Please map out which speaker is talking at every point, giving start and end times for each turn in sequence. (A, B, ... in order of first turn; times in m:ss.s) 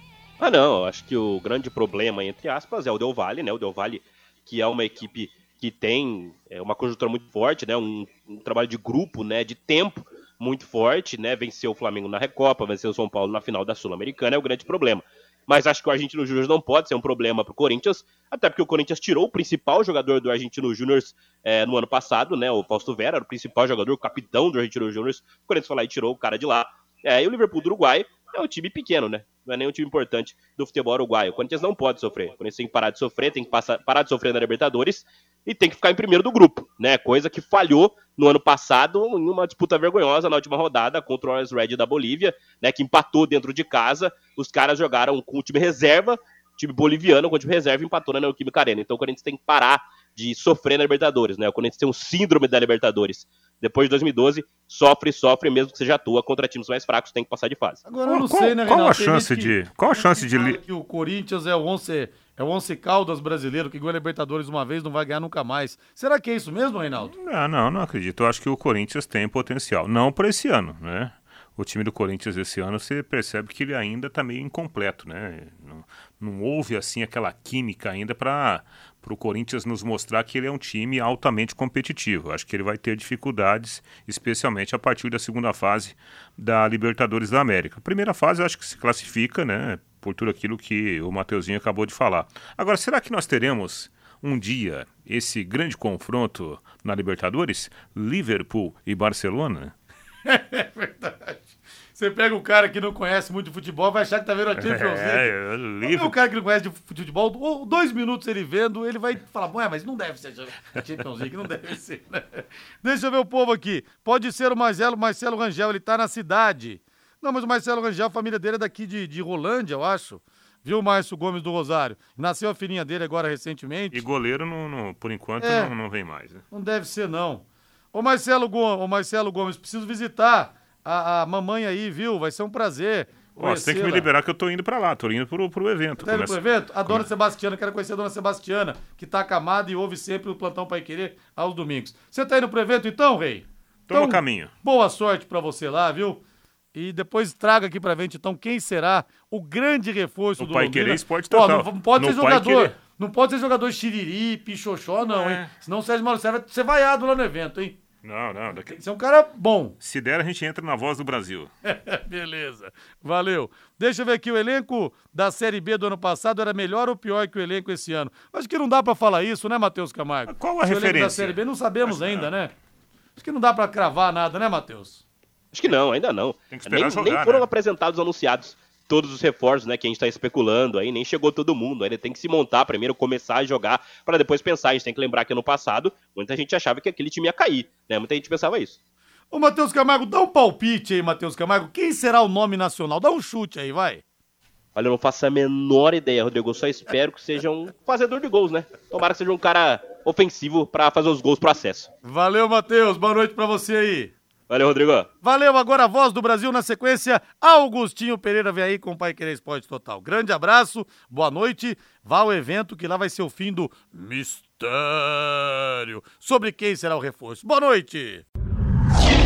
0:00.4-0:57.8 A
0:57.9-1:07.1 B
0:58.0-1:00.6 C
1:07.0-1:39.7 C
1:40.3-2:04.0 B
1:44.5-1:46.2 C
2:03.9-2:06.4 C
2:05.4-2:05.7 B
2:06.5-2:14.1 B
2:13.4-2:17.1 C
2:16.0-2:26.2 B
2:23.9-2:24.5 C
2:26.7-2:37.8 B
2:30.4-2:32.7 C
2:35.0-2:35.5 C
2:38.0-2:38.8 C
2:38.7-2:39.8 B
2:39.8-2:41.5 C
2:41.7-2:52.5 B
2:50.3-2:52.3 C
2:53.2-2:55.0 B
2:55.5-3:08.8 A
2:56.5-2:57.5 C
3:09.3-3:14.0 B
3:14.8-3:21.9 A
3:22.0-3:24.1 B
3:24.5-3:25.1 A
3:25.2-3:38.2 B